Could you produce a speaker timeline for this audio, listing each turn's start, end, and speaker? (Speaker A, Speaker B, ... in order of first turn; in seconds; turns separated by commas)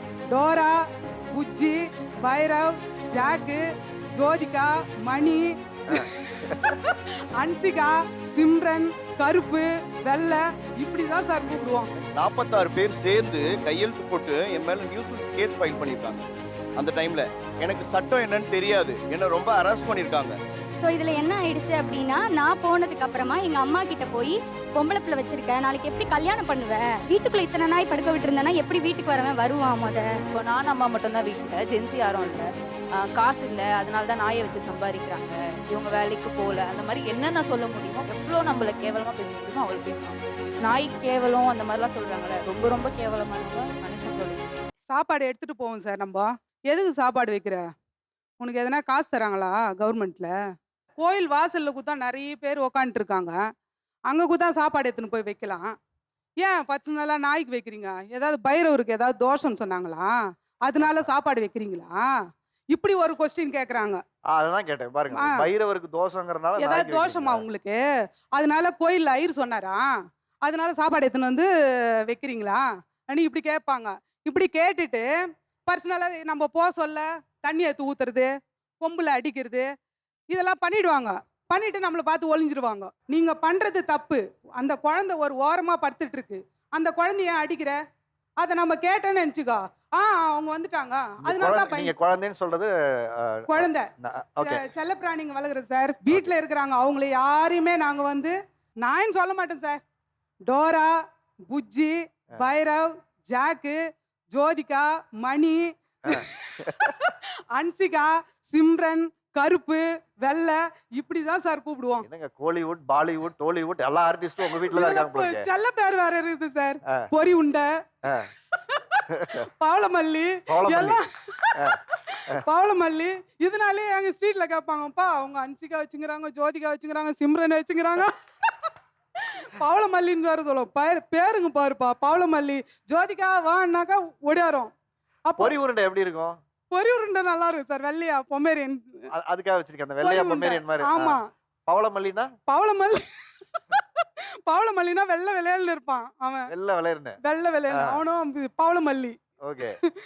Speaker A: 0.3-0.8, Speaker A: 1.3-3.6, Speaker A: 4.1-11.9, Speaker B: 5.9-6.6, Speaker C: 12.1-16.3, Speaker C: 16.8-20.4, Speaker D: 20.8-30.0, Speaker E: 30.3-32.5, Speaker E: 33.0-44.4, Speaker A: 44.9-47.6, Speaker A: 48.4-50.3, Speaker A: 51.0-53.4, Speaker A: 54.1-55.8, Speaker A: 56.4-62.1, Speaker B: 60.8-61.1, Speaker A: 62.7-64.0, Speaker B: 64.3-67.5, Speaker A: 65.1-65.5, Speaker A: 66.5-69.9, Speaker A: 70.4-71.5, Speaker A: 72.0-75.1, Speaker A: 75.7-79.7, Speaker A: 80.3-87.8, Speaker A: 88.4-91.9, Speaker B: 91.2-94.6, Speaker A: 93.5-93.9, Speaker A: 94.4-99.8, Speaker A: 100.5-100.9, Speaker A: 101.5-112.1, Speaker B: 106.1-106.8, Speaker B: 112.0-115.5, Speaker A: 114.5-117.7, Speaker A: 118.7-128.5, Speaker B: 119.2-119.4, Speaker B: 120.5-121.0, Speaker A: 129.6-134.7, Speaker A: 135.3-135.6, Speaker B: 135.4-136.4, Speaker A: 136.7-138.8, Speaker B: 139.1-142.3, Speaker A: 140.0-141.3, Speaker A: 142.5-143.0, Speaker A: 144.5-146.5, Speaker B: 146.5-147.2, Speaker A: 147.2-149.7, Speaker B: 149.4-149.8